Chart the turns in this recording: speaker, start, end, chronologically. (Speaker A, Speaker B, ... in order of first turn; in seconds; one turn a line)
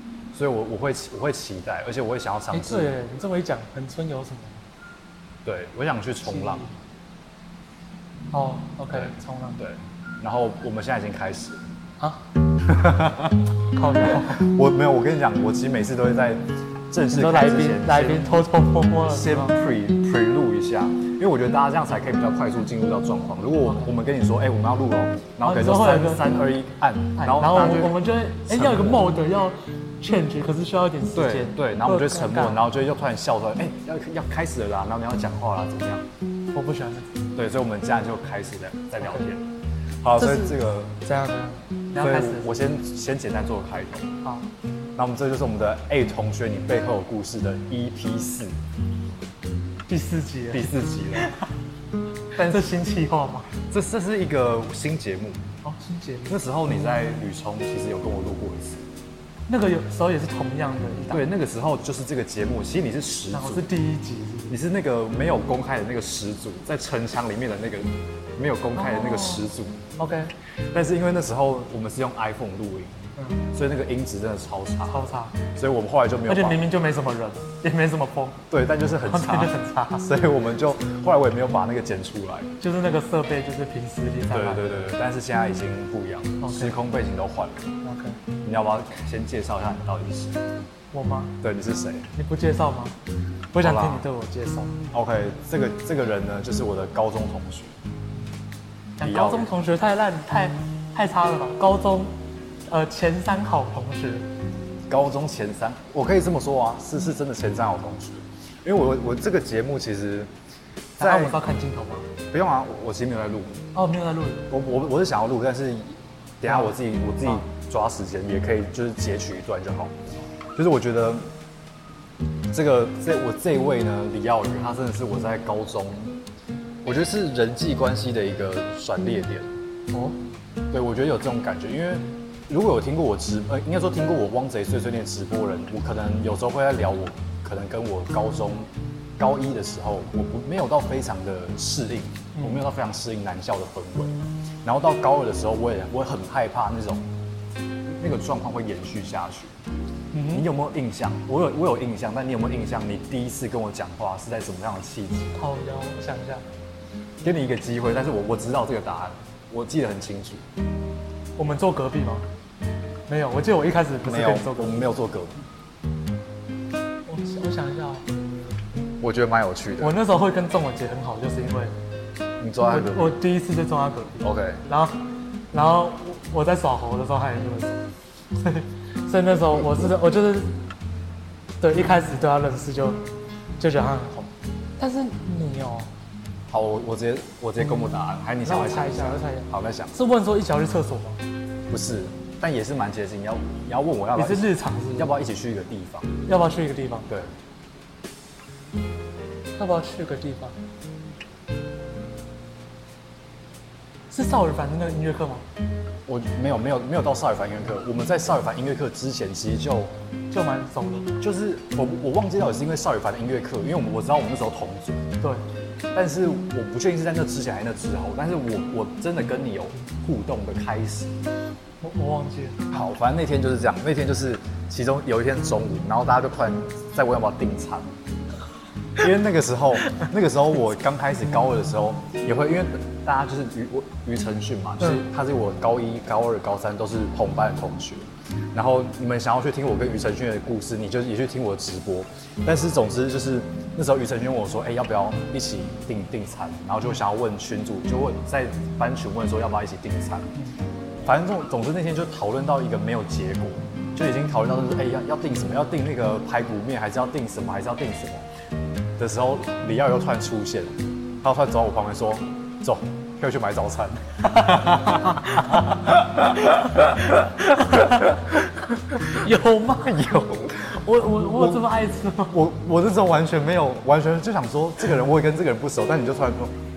Speaker A: 0.3-3.0
Speaker B: 2.5-4.6
Speaker A: 5.5-6.7
Speaker B: 6.2-6.7
Speaker B: 8.3-9.6
Speaker A: 8.9-11.6
Speaker B: 12.0-12.2
Speaker A: 12.7-13.4
Speaker B: 13.7-14.4
Speaker A: 14.0-18.4
Speaker B: 17.1-19.6
Speaker A: 19.0-29.1
Speaker B: 25.4-26.3
Speaker B: 27.2-32.6
Speaker A: 31.1-36.0
Speaker B: 36.5-37.1
Speaker A: 37.4-39.5
Speaker A: 40.0-41.0
Speaker B: 40.2-42.5
Speaker A: 42.0-44.1
Speaker B: 44.2-44.5
Speaker A: 45.0-48.6
Speaker B: 49.9-51.5
Speaker A: 50.5-51.4
Speaker B: 52.4-53.5
Speaker A: 52.4-52.7
Speaker A: 53.7-55.5
Speaker B: 55.6-56.4
Speaker A: 56.3-58.8
Speaker B: 59.5-61.2
Speaker A: 61.1-63.7
Speaker B: 63.3-64.6
Speaker A: 64.5-69.8
Speaker B: 68.8-69.5
Speaker B: 70.0-70.3
Speaker A: 70.7-73.0
Speaker B: 73.2-73.5
Speaker A: 73.5-76.6
Speaker B: 74.9-75.4
Speaker B: 76.3-78.4
Speaker A: 78.5-82.5
Speaker B: 79.1-80.1
Speaker B: 82.6-84.9
Speaker A: 84.3-87.7
Speaker B: 86.4-86.8
Speaker B: 87.8-88.2
Speaker A: 88.4-90.6
Speaker B: 90.9-91.3
Speaker A: 91.4-92.1
Speaker B: 92.2-93.0
Speaker B: 93.5-94.8
Speaker A: 93.6-94.0
Speaker A: 94.9-97.7
Speaker B: 99.0-102.2
Speaker A: 99.0-99.5
Speaker B: 102.7-104.3
Speaker A: 104.9-110.3
Speaker B: 111.0-112.1
Speaker A: 111.0-111.4
Speaker A: 112.3-113.6
Speaker B: 113.7-114.5
Speaker A: 114.5-121.2
Speaker B: 116.4-117.4
Speaker A: 122.5-126.1
Speaker A: 126.8-129.5
Speaker B: 129.9-130.2
Speaker A: 130.7-147.0
Speaker B: 142.3-142.6
Speaker A: 148.0-149.5
Speaker B: 150.1-150.5
Speaker A: 150.3-155.4
Speaker B: 155.4-156.4
Speaker A: 157.2-160.4
Speaker B: 161.4-162.3
Speaker B: 163.1-164.9
Speaker A: 164.1-165.4
Speaker B: 167.1-168.1
Speaker A: 169.0-170.0
Speaker B: 169.8-171.7
Speaker A: 172.4-173.2
Speaker B: 172.7-180.6
Speaker A: 174.2-174.6
Speaker B: 181.6-183.0
Speaker B: 183.6-185.9
Speaker A: 186.5-189.9
Speaker B: 188.4-191.2
Speaker A: 191.7-196.2
Speaker B: 194.2-195.1
Speaker B: 196.3-197.1
Speaker B: 199.6-200.6
Speaker B: 204.1-205.5
Speaker A: 206.1-209.9
Speaker B: 210.3-211.2
Speaker A: 211.2-215.1
Speaker A: 215.9-221.1
Speaker B: 221.8-222.7
Speaker A: 222.7-227.9
Speaker A: 229.0-250.4
Speaker A: 251.0-258.2
Speaker A: 259.0-266.2
Speaker B: 264.4-270.1
Speaker A: 269.8-271.6
Speaker B: 270.6-272.4
Speaker A: 272.3-276.6